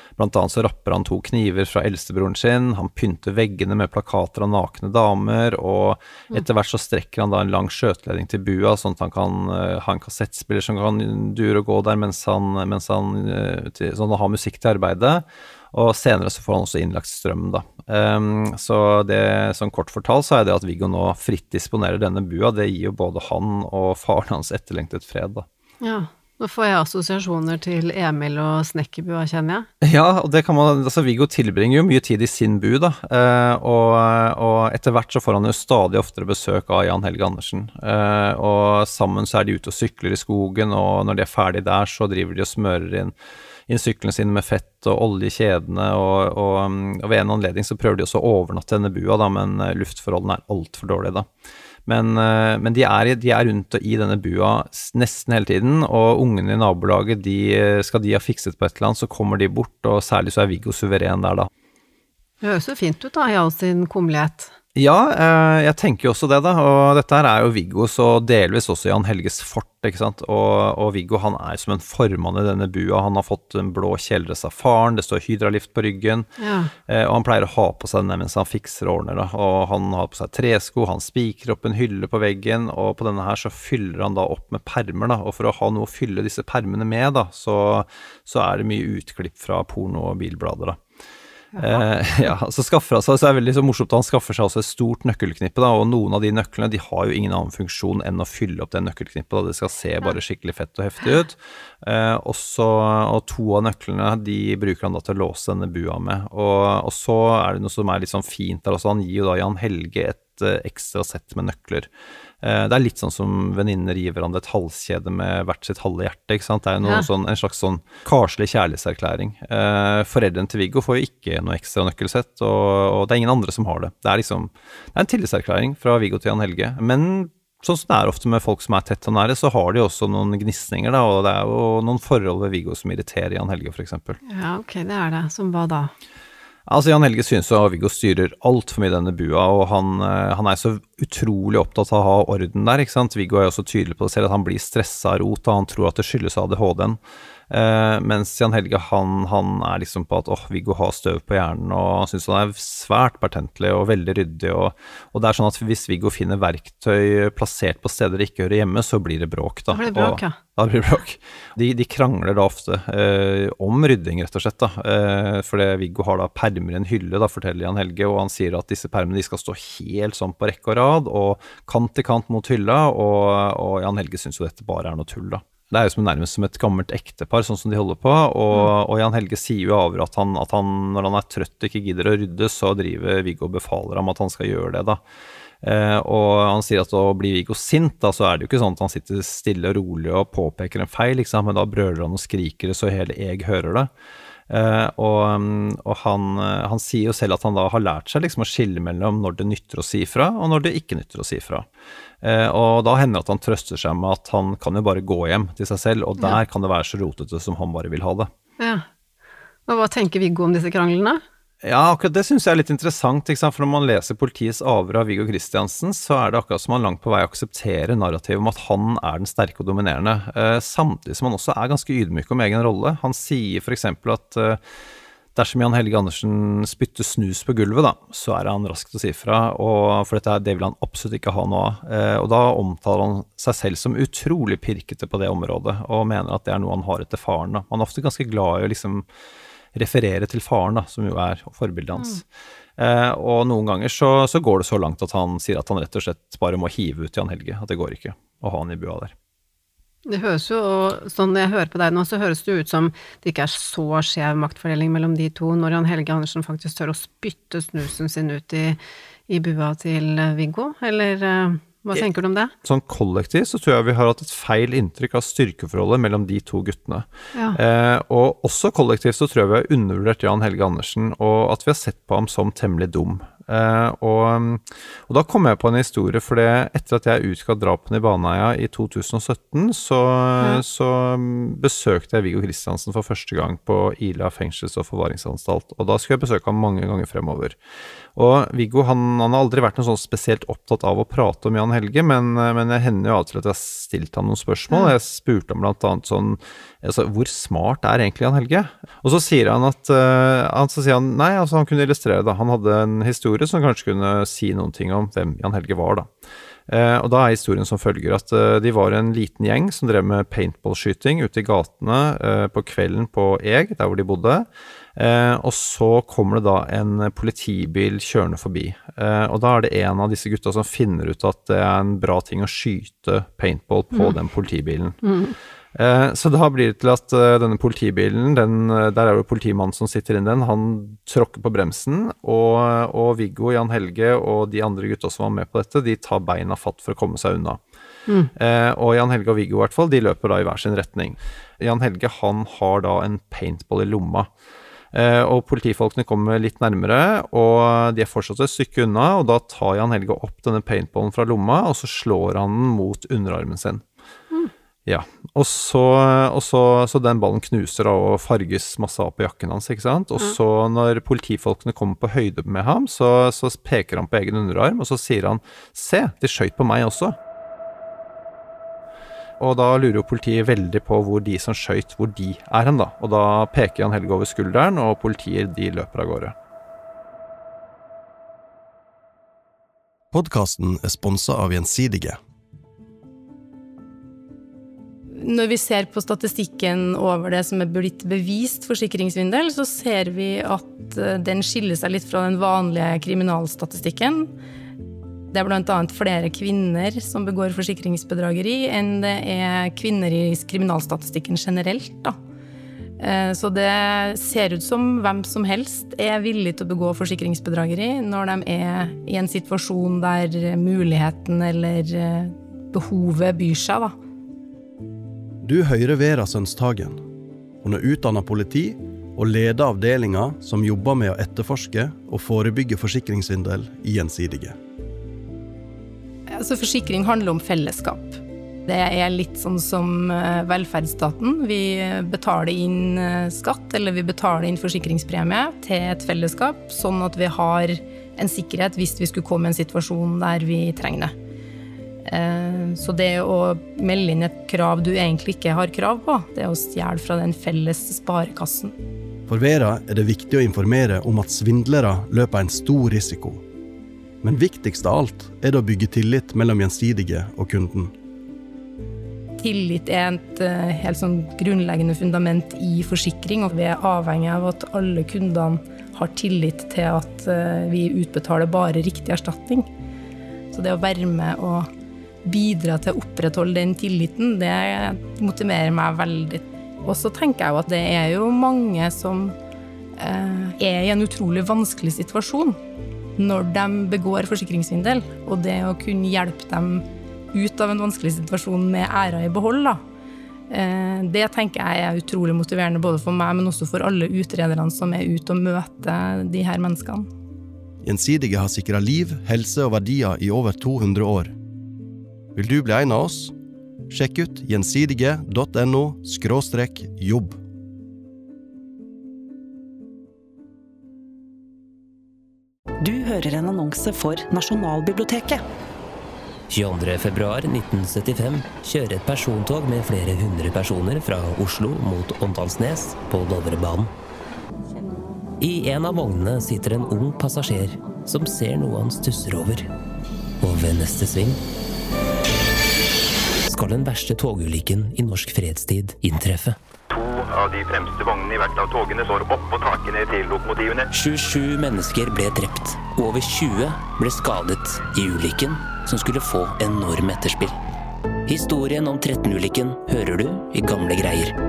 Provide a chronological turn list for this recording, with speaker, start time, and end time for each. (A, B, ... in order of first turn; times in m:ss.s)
0:00.2-0:25.4 A
0:25.8-0:29.7 B
0:29.8-0:43.1 A
0:43.7-0:51.3 A
0:51.8-1:01.5 A
1:02.4-1:04.5 B
1:04.7-1:16.3 A
1:16.4-1:16.7 B
1:16.9-1:30.8 A
1:31.5-1:31.8 B
1:31.6-1:51.9 A
1:52.4-2:14.2 A
1:56.8-1:57.1 B
2:14.3-2:15.9 B
2:16.7-2:27.0 A
2:27.5-3:05.0 A
2:39.7-2:40.3 B
3:05.6-3:13.9 A
3:14.5-3:21.7 A
3:22.2-3:28.3 A
3:28.6-3:28.8 B
3:29.7-3:31.2 B
3:31.6-3:44.6 A
3:45.3-3:59.0 A
3:59.7-4:02.2 A
4:02.8-4:09.1 A
4:10.0-4:22.5 B
4:22.6-4:47.6 A
4:48.1-5:06.1 A
5:06.7-5:25.0 A
5:25.0-5:25.4 B
5:25.7-5:37.6 A
5:38.4-5:44.3 A
5:44.9-5:53.8 A
5:54.8-6:07.2 A
6:09.4-6:16.3 A
6:20.1-6:22.2 C
6:25.2-6:34.3 D
6:35.3-6:42.2 D
6:43.0-6:53.9 D
6:55.4-6:57.0 C
6:57.6-7:04.6 C
7:06.3-7:21.1 D
7:22.0-7:28.7 D
7:29.3-7:33.4 C
7:34.2-7:37.9 C
7:39.4-7:49.7 D
7:50.5-7:51.7 D
7:52.2-7:59.4 D
8:00.0-8:02.6 D
8:03.2-8:09.8 D
8:10.5-8:17.1 D
8:17.8-8:21.3 C
8:22.3-8:23.3 C
8:23.9-8:27.4 C
8:32.8-8:35.4 E
8:36.5-8:43.9 F
8:45.4-8:49.7 F
8:50.4-8:51.4 F
8:53.4-8:56.6 F
8:56.9-9:00.9 G
9:00.9-9:07.6 F
9:08.2-9:11.3 F